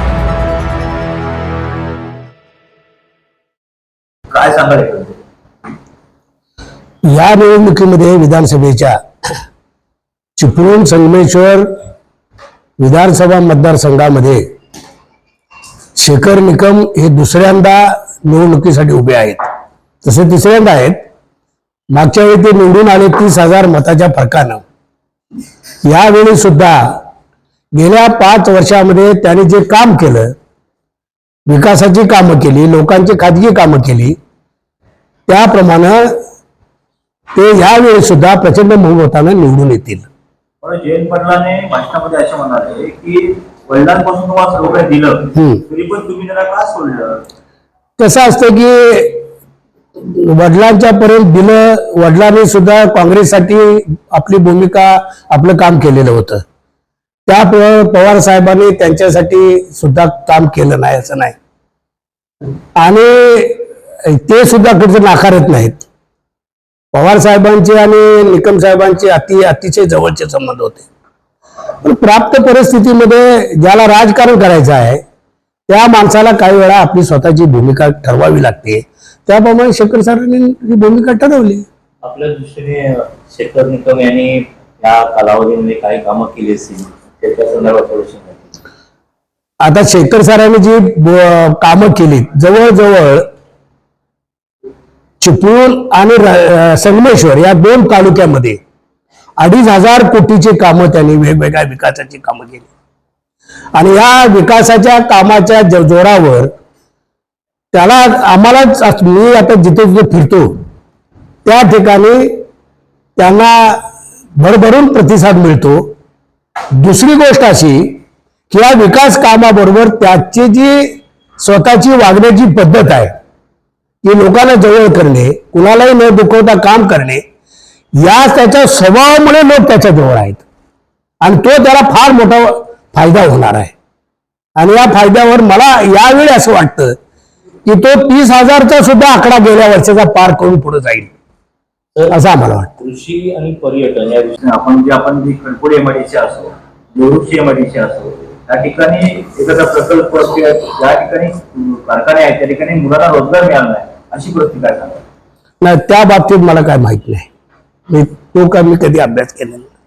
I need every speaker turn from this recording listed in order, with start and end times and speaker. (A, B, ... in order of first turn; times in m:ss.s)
0:04.3-0:05.1 A
0:04.7-0:04.9 B
0:07.0-0:09.0 C
0:10.4-0:11.7 C
0:12.8-0:14.4 C
0:16.0-0:19.4 C
0:20.0-0:21.0 C
0:21.9-0:24.6 C
0:25.8-0:27.0 C
0:27.7-0:30.3 C
0:31.5-0:34.2 C
0:35.3-0:36.1 C
0:37.3-0:40.0 C
0:40.6-0:47.2 A
0:45.3-0:45.6 C
0:48.0-0:49.2 C
0:50.0-0:56.4 C
0:57.3-1:01.3 C
1:02.8-1:05.8 C
1:06.9-1:10.8 C
1:11.8-1:15.0 C
1:15.7-1:21.6 C
1:22.0-1:28.5 B
1:29.6-1:33.2 C
1:35.2-1:38.6 C
1:39.4-1:42.7 C
1:43.7-1:46.5 C
1:47.7-1:50.5 C
1:51.4-1:52.4 C
1:53.2-1:53.8 C
1:54.4-1:55.9 C
1:56.7-2:03.1 C
2:04.0-2:07.2 C
2:08.0-2:10.4 C
2:11.2-2:13.7 C
2:14.6-2:17.0 C
2:17.6-2:21.1 C
2:22.1-2:22.7 C
2:22.8-2:25.9 B
2:24.4-2:35.0 A
2:27.0-2:31.2 B
2:32.1-2:34.2 B
2:35.6-2:37.3 C
2:37.9-2:39.6 C